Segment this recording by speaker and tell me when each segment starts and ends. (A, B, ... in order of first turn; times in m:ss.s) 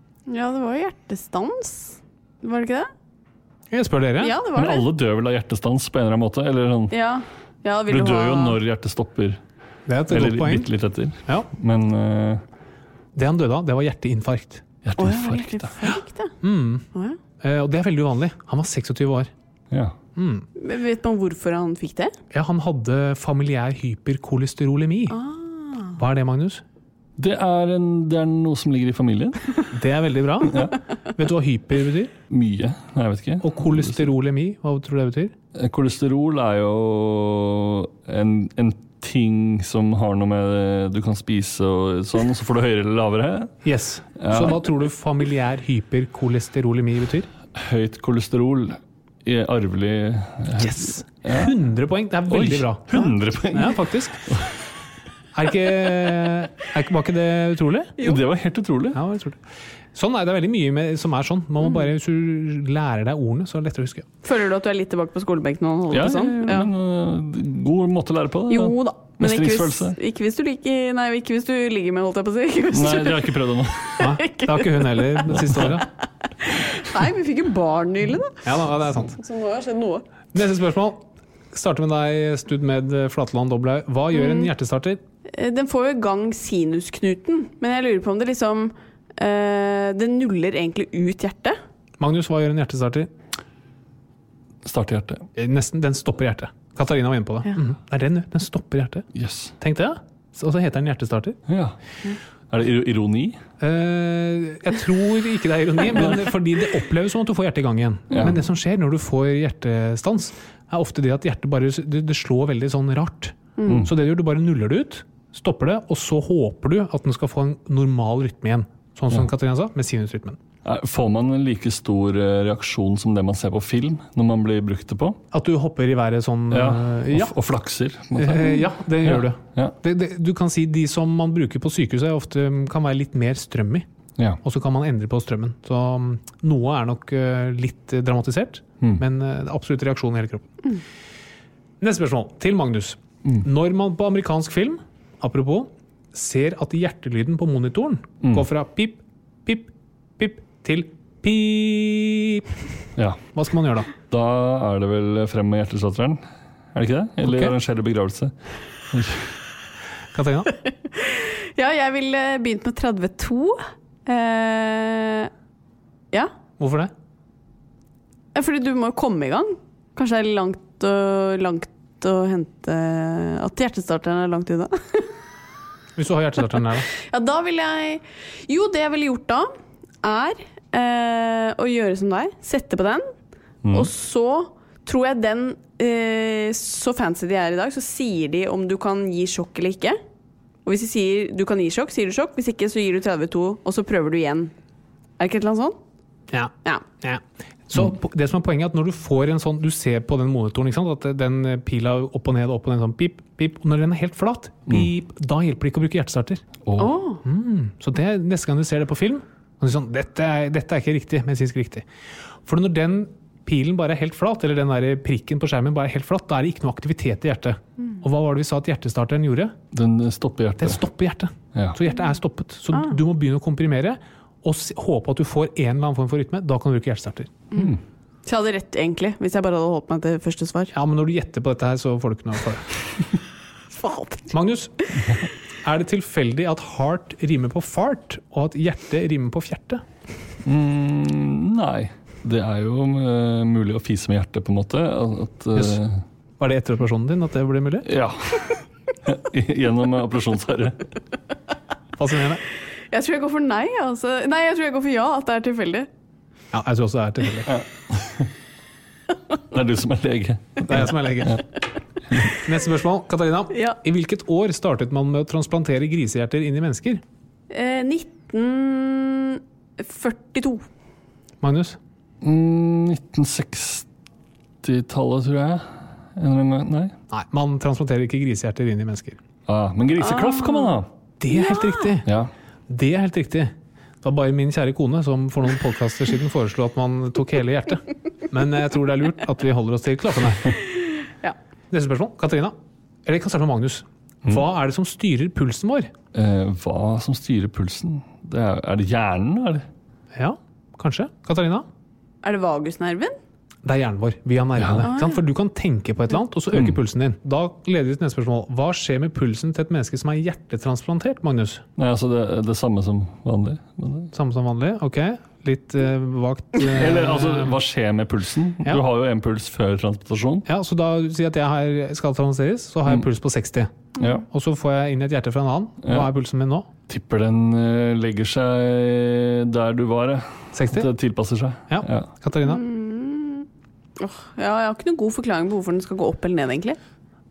0:00.3-0:02.9 A
0:03.7-0:04.4 B
0:04.2-0:04.8 A
0:04.5-0:06.9 C
0:06.9-0:08.6 A
0:07.9-0:09.4 C
0:09.9-0:10.7 B
0:10.1-0:12.4 C
0:13.1-0:14.6 B
0:14.8-0:15.7 C
0:15.0-0:16.3 A
0:16.4-0:16.8 B
0:17.4-0:19.3 B
0:19.7-0:20.0 C
0:20.2-0:20.4 B
0:20.6-0:22.1 A
0:22.3-0:25.2 B
0:25.1-0:25.9 A
0:26.0-0:26.6 B
0:27.2-0:29.4 C
0:29.7-0:30.6 B
0:30.4-0:30.8 C
0:31.2-0:32.1 B
0:32.3-0:34.1 C
0:33.4-0:35.3 B
0:35.5-0:43.5 C
0:43.6-0:47.3 B
0:44.1-0:44.6 C
0:47.5-0:51.6 C
0:50.5-0:54.3 B
0:52.3-0:54.5 C
0:55.3-0:58.0 B
0:58.0-0:59.0 C
0:58.9-0:59.4 B
0:59.9-1:04.0 B
1:04.2-1:06.7 A
1:05.9-1:10.0 C
1:08.5-1:13.3 A
1:12.7-1:14.0 C
1:14.0-1:15.8 A
1:14.0-1:15.9 B
1:15.4-1:15.7 C
1:16.4-1:18.4 A
1:18.4-1:19.2 B
1:19.1-1:20.0 A
1:20.3-1:25.0 B
1:24.1-1:24.5 A
1:25.3-1:31.6 A
1:32.0-1:33.1 B
1:34.6-1:35.2 C
1:35.4-1:39.1 B
1:39.1-1:39.5 C
1:39.6-1:41.4 B
1:41.5-1:41.8 C
1:42.5-1:43.4 C
1:43.6-2:00.4 B
1:48.1-1:48.4 C
1:53.6-1:53.8 A
2:00.6-2:05.2 C
2:05.3-2:07.3 B
2:06.5-2:09.8 C
2:08.1-2:13.8 B
2:14.4-2:20.8 B
2:21.8-2:32.5 B
2:33.3-2:33.9 B
2:34.1-2:36.2 C
2:36.7-2:39.3 C
2:37.2-2:37.5 B
2:40.1-2:40.5 B
2:40.9-2:45.3 A
2:46.6-2:46.9 B
2:48.3-2:55.1 A
2:56.0-2:56.9 B
2:56.9-2:59.5 A
3:00.0-3:03.1 A
3:03.6-3:03.9 C
3:03.7-3:10.0 A
3:10.6-3:14.5 A
3:15.2-3:15.8 A
3:16.3-3:26.4 B
3:26.6-3:27.0 C
3:26.8-3:27.2 A
3:27.2-3:31.8 B
3:32.4-3:39.6 B
3:39.7-3:40.8 C
3:40.6-3:47.4 B
3:48.2-3:50.7 A
3:50.7-3:52.7 B
3:53.8-3:54.3 A
3:54.3-3:54.7 B
3:55.6-3:59.8 B
4:00.4-4:06.0 C
4:05.5-4:05.8 B
4:06.4-4:07.9 B
4:07.8-4:10.8 C
4:12.0-4:12.4 B
4:12.9-4:15.9 A
4:16.5-4:17.5 B
4:17.4-4:18.3 C
4:19.5-4:21.4 C
4:20.7-4:21.4 B
4:22.3-4:27.0 B
4:23.5-4:23.8 A
4:27.5-4:30.6 A
4:31.4-4:31.8 B
4:32.2-4:33.9 C
4:34.6-4:36.9 C
4:37.1-4:39.2 B
4:39.5-4:40.9 C
4:40.0-4:40.8 A
4:41.2-4:42.1 B
4:41.3-4:41.9 A
4:42.0-4:42.3 C
4:42.7-4:50.5 B
4:51.7-4:55.9 B
4:56.1-4:59.6 C
5:00.1-5:01.6 B
5:02.2-5:03.1 A
5:03.6-5:11.6 B
5:04.6-5:04.9 C
5:04.8-5:05.2 A
5:11.8-5:14.1 C
5:14.1-5:17.5 B
5:16.6-5:20.4 C
5:20.4-5:26.7 B
5:24.0-5:24.2 C
5:25.8-5:26.1 C
5:26.9-5:32.1 C
5:30.5-5:30.9 B
5:31.7-5:32.6 B
5:32.4-5:33.4 A
5:34.0-5:36.8 A